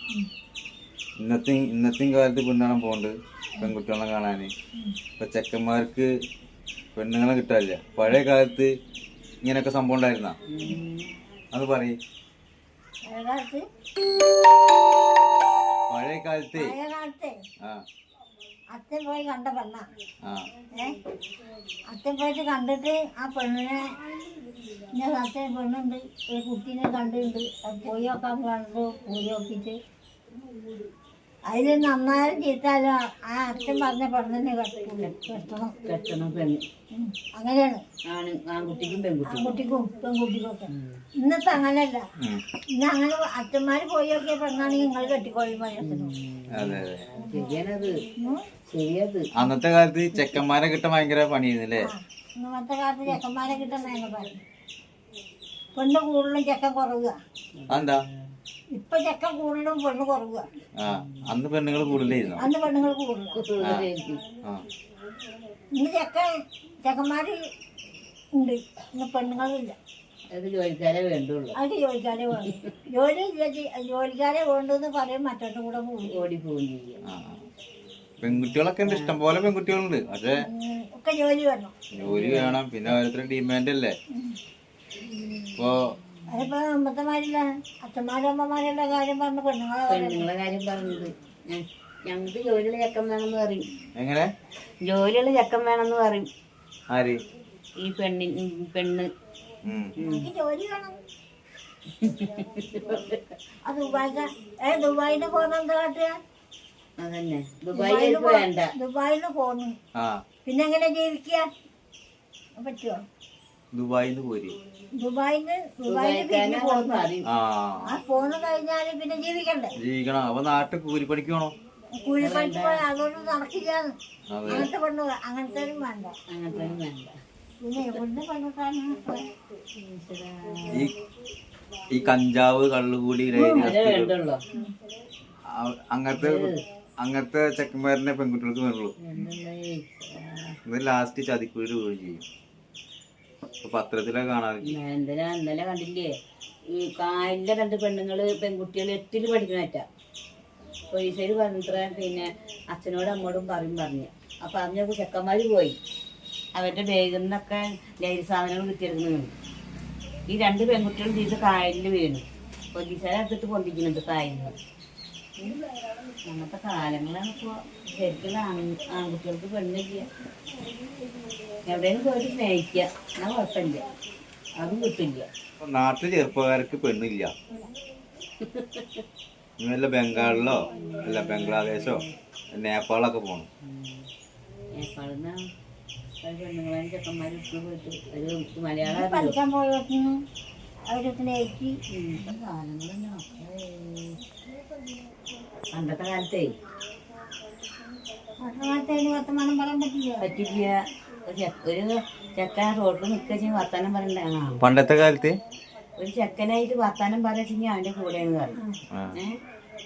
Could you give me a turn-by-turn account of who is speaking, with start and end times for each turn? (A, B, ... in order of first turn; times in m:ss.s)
0:01.2-0:04.5 A
0:05.2-0:06.1 A
0:07.0-0:08.7 A
0:09.4-0:10.4 A
0:10.5-0:11.1 B
0:11.5-0:12.0 A
0:13.1-0:13.6 C
0:15.9-0:16.7 A
0:16.6-0:17.3 C
0:18.7-0:19.9 C
0:21.9-0:23.8 C
0:24.9-0:29.8 C
0:31.5-0:35.8 C
0:35.8-0:36.6 B
0:36.9-0:37.8 C
0:38.1-0:39.6 B
0:39.3-0:42.0 C
0:40.7-0:41.0 B
0:42.8-0:46.1 C
0:45.8-0:48.0 B
0:46.5-0:47.0 A
0:47.2-0:47.6 C
0:48.7-0:49.3 B
0:49.4-0:51.9 A
0:51.8-0:54.4 C
0:55.8-0:57.2 C
0:57.6-0:58.2 B
0:57.7-0:58.0 A
0:58.7-1:00.5 C
1:00.8-1:02.5 A
1:00.9-1:01.3 B
1:01.9-1:02.4 B
1:02.4-1:03.5 C
1:03.3-1:04.2 B
1:03.6-1:03.9 A
1:05.8-1:06.3 C
1:06.8-1:07.4 C
1:08.4-1:09.8 C
1:10.3-1:11.6 B
1:11.6-1:16.2 C
1:12.4-1:12.7 B
1:16.1-1:17.0 B
1:17.0-1:17.4 A
1:18.2-1:20.4 A
1:18.2-1:19.2 B
1:20.4-1:21.7 C
1:21.9-1:24.0 A
1:22.0-1:23.0 B
1:25.0-1:25.6 B
1:25.6-1:25.8 A
1:26.2-1:26.5 B
1:26.3-1:30.3 C
1:29.9-1:33.6 B
1:34.0-1:34.3 A
1:34.8-1:36.3 B
1:36.9-1:37.2 A
1:37.8-1:39.1 B
1:39.6-1:40.0 A
1:40.0-1:40.3 B
1:40.0-1:41.0 C
1:42.0-1:43.2 B
1:43.7-1:46.1 C
1:47.0-1:48.8 B
1:47.8-1:49.7 C
1:50.0-1:50.2 A
1:50.4-1:51.5 C
1:52.6-1:53.0 C
1:53.7-1:54.6 A
1:55.0-1:57.1 C
1:55.9-1:57.3 B
1:57.3-1:58.0 A
1:57.9-1:59.7 C
1:59.8-2:01.5 A
2:02.0-2:03.9 C
2:02.2-2:02.8 B
2:04.3-2:04.7 A
2:04.5-2:06.1 C
2:06.3-2:07.1 B
2:07.6-2:09.3 C
2:09.8-2:10.9 B
2:11.9-2:14.1 A
2:13.3-2:13.7 C
2:13.6-2:14.4 B
2:15.5-2:18.9 A
2:16.2-2:16.6 B
2:19.0-2:20.6 B
2:20.7-2:22.2 A
2:23.6-2:24.8 A
2:24.6-2:26.2 B
2:26.7-2:29.8 B
2:30.9-2:35.8 B
2:36.6-2:39.3 B
2:40.3-2:44.6 B
2:46.3-2:50.1 B
2:51.7-2:53.9 B
2:54.6-2:55.3 B
2:55.6-2:57.3 A
2:58.4-2:59.0 B
2:59.6-3:03.5 A
3:00.5-3:02.1 B
3:03.6-3:04.1 B
3:04.8-3:05.4 B
3:06.2-3:09.4 B
3:08.8-3:10.2 C
3:10.9-3:11.7 C
3:11.9-3:14.2 B
3:15.7-3:16.6 B
3:18.4-3:20.3 C
3:20.2-3:24.6 B
3:24.6-3:25.4 A
3:26.0-3:28.6 B
3:28.9-3:29.2 A
3:29.2-3:29.4 B